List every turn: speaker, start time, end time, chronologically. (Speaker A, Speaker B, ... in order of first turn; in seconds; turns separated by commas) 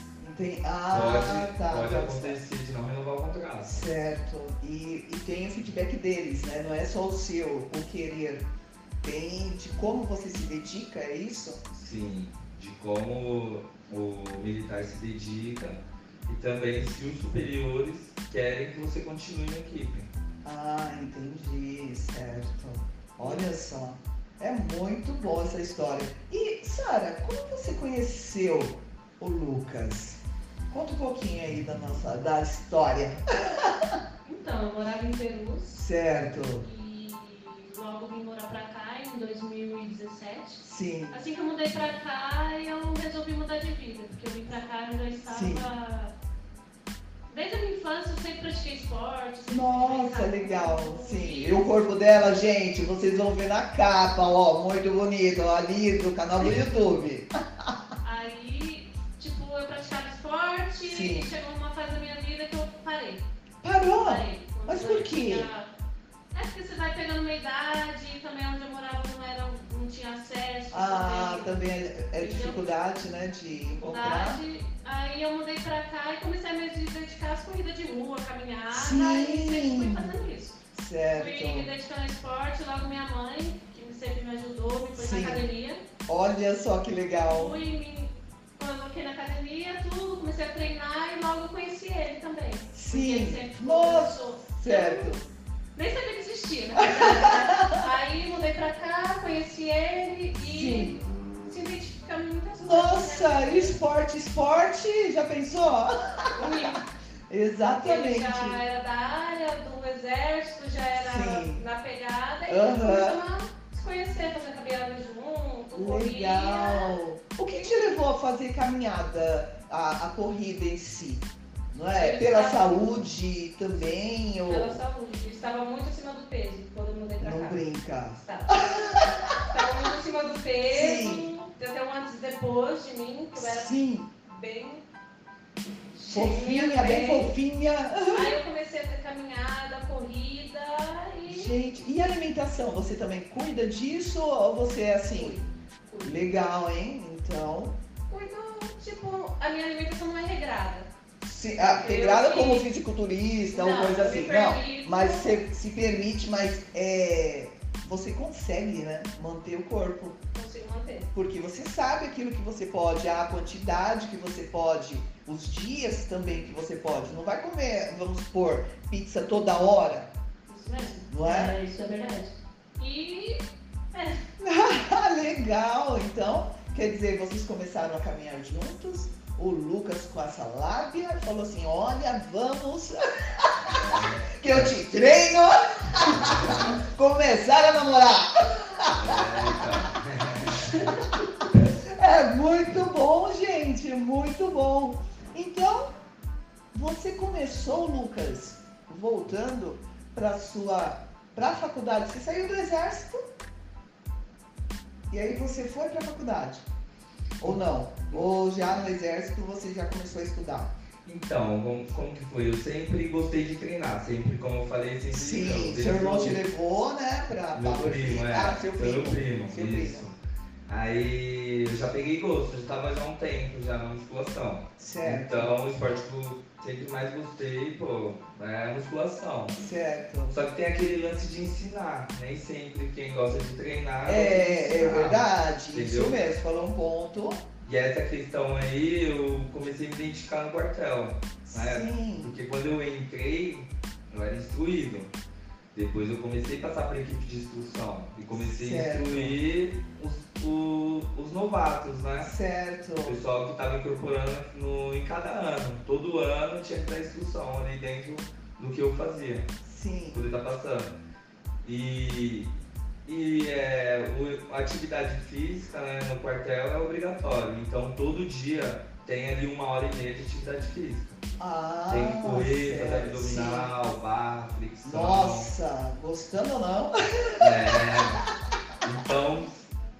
Speaker A: 0.2-2.4, Speaker B: 0.9-3.8, Speaker A: 3.6-8.5, Speaker A: 9.0-11.6, Speaker B: 11.7-20.1, Speaker A: 20.4-34.0, Speaker C: 34.2-35.8, Speaker A: 35.7-36.6, Speaker C: 36.6-46.1, Speaker A: 40.6-41.2, Speaker A: 45.3-45.6, Speaker C: 47.3-51.7, Speaker A: 49.5-57.7, Speaker C: 58.0-63.2, Speaker A: 60.8-61.3, Speaker A: 63.6-65.5, Speaker C: 63.9-65.7, Speaker C: 66.3-71.5, Speaker A: 70.7-74.4, Speaker C: 72.2-72.6, Speaker C: 73.8-80.6, Speaker A: 78.7-80.1, Speaker A: 80.7-81.7, Speaker C: 81.1-85.8, Speaker A: 84.9-85.4, Speaker A: 86.1-87.6, Speaker C: 87.2-95.2, Speaker A: 92.7-95.2, Speaker C: 95.8-103.8, Speaker A: 96.8-97.9, Speaker A: 100.4-101.0, Speaker A: 102.6-106.8, Speaker C: 106.3-106.8, Speaker A: 107.3-108.6, Speaker C: 107.7-117.0, Speaker A: 111.0-111.6, Speaker A: 112.5-113.2, Speaker A: 115.7-124.8, Speaker C: 121.9-122.8, Speaker C: 124.5-127.6, Speaker A: 127.2-129.7, Speaker C: 128.2-134.8, Speaker A: 130.7-131.3, Speaker A: 133.3-134.1, Speaker C: 135.9-137.3, Speaker A: 136.1-138.4, Speaker C: 138.1-141.6, Speaker A: 141.2-145.4, Speaker C: 145.1-146.2, Speaker A: 146.0-147.8, Speaker C: 148.1-150.9, Speaker A: 151.2-160.2, Speaker C: 151.6-152.7, Speaker C: 153.5-155.3, Speaker C: 160.3-161.1, Speaker A: 161.1-170.1, Speaker C: 170.5-174.2, Speaker A: 171.1-171.6, Speaker A: 174.4-189.5, Speaker B: 183.7-184.7, Speaker B: 186.0-186.8, Speaker B: 188.9-191.0, Speaker A: 190.5-195.9, Speaker A: 196.7-203.2, Speaker A: 205.1-206.7, Speaker A: 207.4-210.7, Speaker B: 211.0-216.4, Speaker A: 215.1-220.1, Speaker B: 217.5-220.2, Speaker B: 220.7-229.6, Speaker A: 224.8-225.5, Speaker A: 229.6-230.4, Speaker B: 230.3-236.2, Speaker A: 234.1-237.4, Speaker B: 237.6-245.1, Speaker A: 241.5-242.3, Speaker B: 245.7-252.3, Speaker A: 248.3-249.4, Speaker A: 252.2-253.2, Speaker B: 253.0-259.5, Speaker A: 259.6-260.2, Speaker B: 260.1-260.9, Speaker B: 261.6-262.5, Speaker B: 263.1-271.2, Speaker A: 271.4-273.7, Speaker B: 271.9-275.5, Speaker A: 274.8-278.3, Speaker B: 277.4-278.2, Speaker B: 278.8-279.7